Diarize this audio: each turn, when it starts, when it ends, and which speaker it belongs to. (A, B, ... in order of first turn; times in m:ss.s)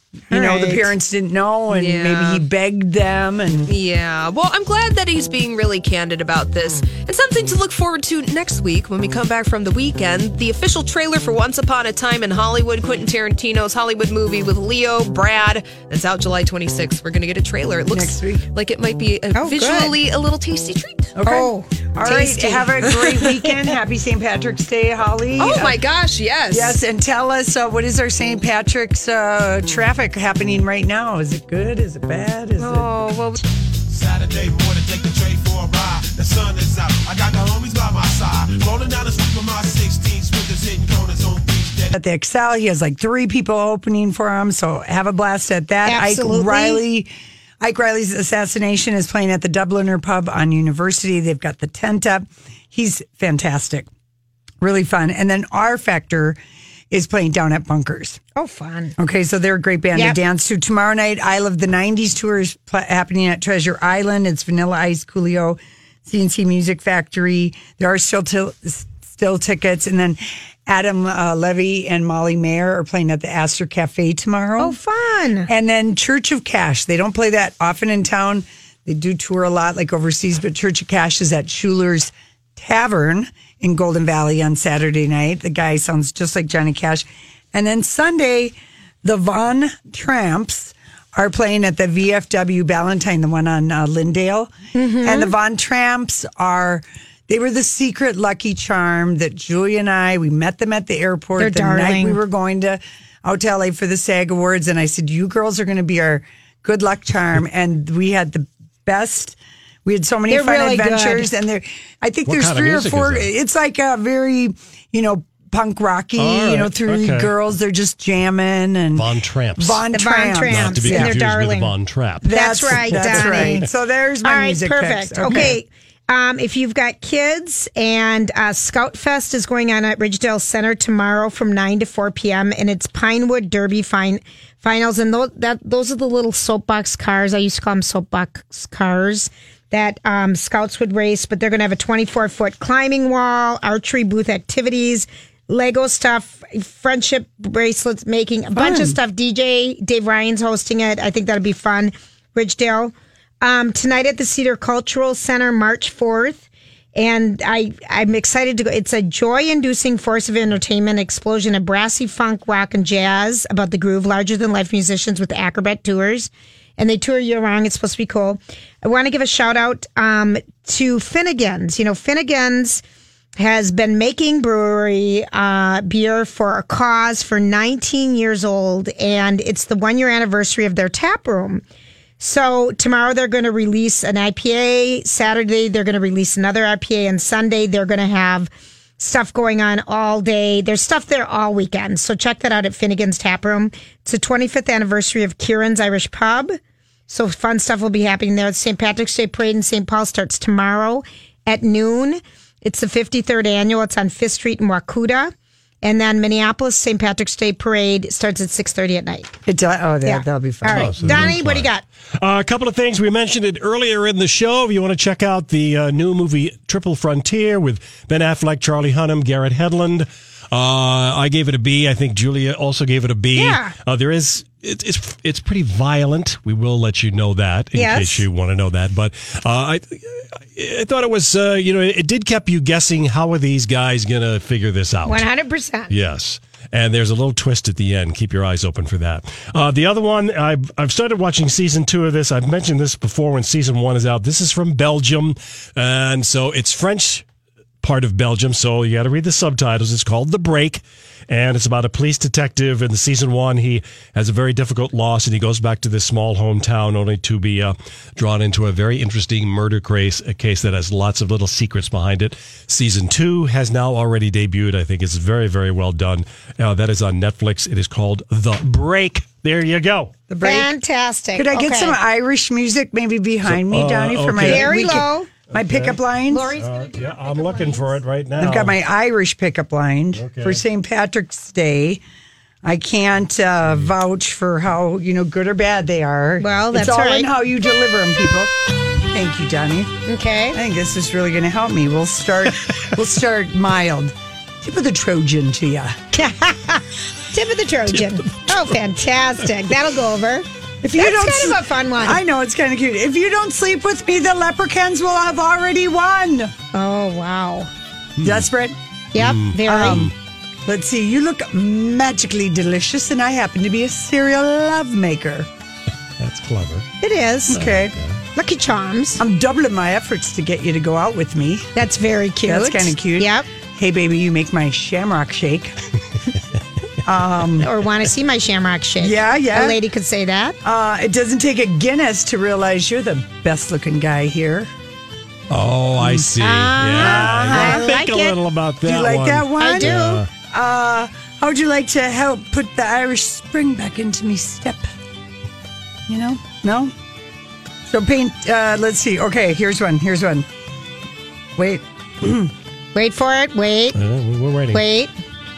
0:00.3-0:03.7 A
0:00.3-0:00.9 B
0:01.7-0:02.4 C
0:03.7-0:21.2 C
0:17.9-0:18.5 A
0:19.4-0:20.0 B
0:21.2-0:25.8 A
0:21.2-0:22.6 B
0:22.1-0:23.3 C
0:25.4-0:26.8 C
0:26.5-0:32.9 A
0:32.6-0:33.4 C
0:33.9-0:41.9 D
0:41.9-0:53.9 A
0:45.9-0:46.8 B
0:54.6-0:56.4 A
0:56.9-0:58.2 A
0:58.4-0:59.0 B
0:59.0-1:14.8 A
1:14.6-1:15.5 B
1:15.5-2:01.2 A
1:34.8-1:35.3 B
1:41.4-1:42.2 B
1:50.3-1:51.3 B
1:52.3-1:53.3 E
1:56.2-1:57.3 E
1:59.0-1:59.8 E
1:59.9-2:03.7 B
2:00.5-2:03.6 E
2:02.2-2:05.6 A
2:04.2-2:52.8 B
2:28.5-2:29.0 A
2:53.4-3:01.6 B
3:02.2-3:16.6 B
3:17.1-3:29.4 B
3:29.5-3:31.4 A
3:30.0-3:31.8 B
3:30.7-3:55.3 E
3:43.3-3:43.8 B
3:47.8-3:48.3 B
3:55.0-3:56.0 B
3:55.9-4:07.2 E
4:07.8-4:30.1 E
4:30.3-4:30.7 A
4:30.4-4:32.0 B
4:31.4-4:36.5 A
4:33.5-4:36.0 E
4:34.4-4:35.3 B
4:36.3-4:38.0 B
4:36.6-4:38.8 E
4:38.4-4:42.0 A
4:40.2-4:40.6 E
4:42.6-4:48.5 A
4:46.4-4:47.3 B
4:49.0-4:49.9 A
4:50.1-4:50.6 B
4:50.5-4:56.0 A
4:56.1-5:02.2 B
4:58.2-4:58.7 E
5:00.8-5:06.5 A
5:06.7-5:07.7 B
5:08.2-5:08.8 A
5:09.2-5:10.1 B
5:09.2-5:10.1 E
5:09.7-5:10.1 A
5:10.7-5:15.5 A
5:16.2-5:16.9 E
5:17.0-5:17.7 B
5:17.5-5:18.0 A
5:17.6-5:18.2 E
5:18.4-5:19.2 B
5:19.2-5:21.7 A
5:21.8-5:23.5 B
5:22.4-5:25.8 A
5:27.0-5:27.7 A
5:27.6-5:30.6 B
5:29.0-5:29.8 A
5:30.6-5:34.7 A
5:35.5-5:40.3 E
5:36.0-5:36.3 A
5:36.4-5:38.4 B
5:36.9-5:37.9 A
5:38.8-5:44.9 A
5:39.6-5:40.2 B
5:46.1-5:46.9 A
5:47.9-5:50.5 A
5:51.6-5:52.5 A
5:52.9-5:54.0 B
5:54.0-5:54.8 E
5:54.7-5:55.1 B